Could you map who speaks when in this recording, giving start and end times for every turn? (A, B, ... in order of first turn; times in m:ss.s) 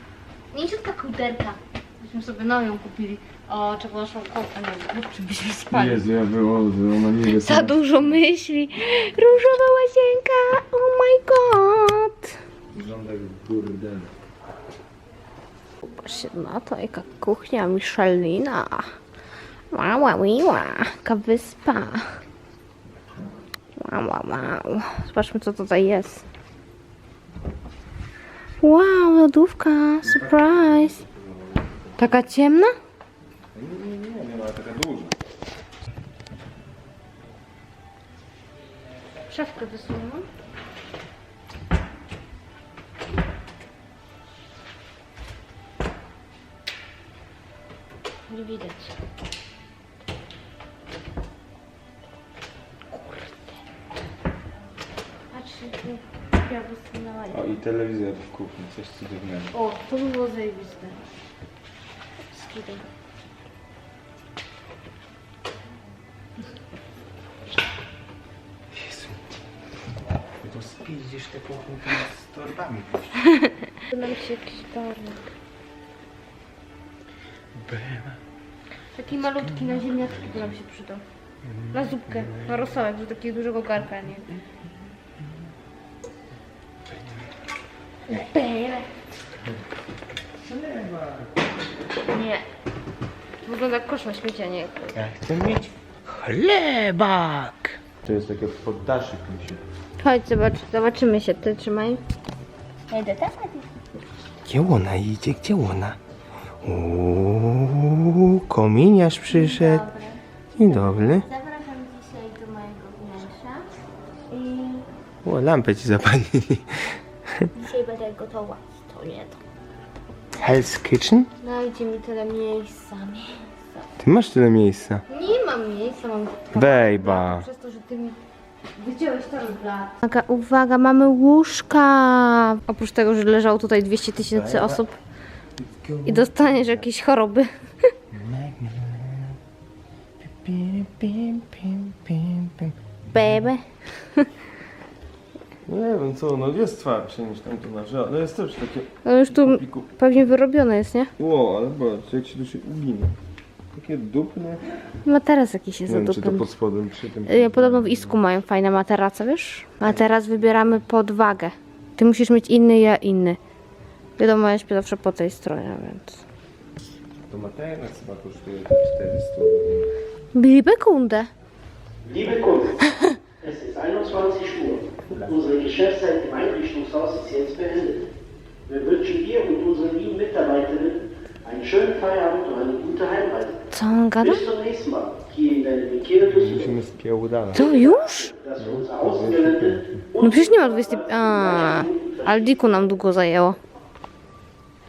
0:00.5-0:06.0 A
0:05.7-0:08.1 B
0:07.3-0:12.4 A
0:12.7-0:14.1 B
0:15.8-0:18.9 A
0:19.7-0:22.1 A
0:23.8-0:26.2 A
0:28.6-0:31.0 A
0:30.0-0:32.0 B
0:32.0-0:32.7 A
0:33.5-0:35.2 B
0:39.3-0:40.3 A
0:48.3-0:49.0 A
0:52.9-0:53.6 A
0:55.3-0:57.6 A
0:57.3-0:59.5 B
0:59.5-1:01.0 A
1:02.3-1:02.8 A
1:08.7-1:09.2 B
1:10.4-1:13.3 B
1:13.7-1:15.3 A
1:17.6-1:18.2 B
1:18.9-1:21.0 A
1:19.2-1:20.1 B
1:21.4-1:22.6 B
1:21.7-1:24.3 A
1:24.4-1:25.1 B
1:28.1-1:28.9 A
1:30.4-1:31.4 B
1:32.1-1:32.4 A
1:33.4-1:35.0 A
1:35.0-1:39.6 B
1:40.0-1:42.0 A
1:42.9-1:43.7 A
1:44.4-1:46.0 B
1:46.6-1:49.8 B
1:49.3-1:53.7 A
1:50.6-1:51.3 B
1:54.3-1:54.9 A
1:55.2-1:57.5 B
1:57.5-1:59.4 A
2:00.4-2:01.3 B
2:01.4-2:03.7 A
2:04.0-2:05.0 B
2:05.1-2:08.2 A
2:06.5-2:07.5 B
2:08.8-2:15.0 A
2:14.3-2:14.8 B
2:15.6-2:16.8 B
2:16.1-2:17.5 A
2:18.1-2:19.4 B
2:20.2-2:23.5 B
2:23.1-2:24.3 A
2:25.7-2:29.9 B
2:29.0-2:31.1 A
2:31.2-2:33.1 B
2:33.7-2:34.6 B
2:35.0-2:36.5 A
2:35.9-2:38.2 B
2:37.3-2:43.4 A
2:39.9-2:40.6 B
2:44.2-2:46.2 A
2:47.3-2:49.9 B
2:50.3-2:51.3 A
2:52.0-2:58.1 C
2:52.9-2:53.2 A
2:55.1-2:55.4 B
2:58.7-3:03.6 C
3:03.7-3:04.5 A
3:04.2-3:06.6 C
3:06.2-3:07.7 B
3:07.5-3:08.3 A
3:07.6-3:12.3 C
3:08.6-3:10.0 B
3:10.2-3:13.6 A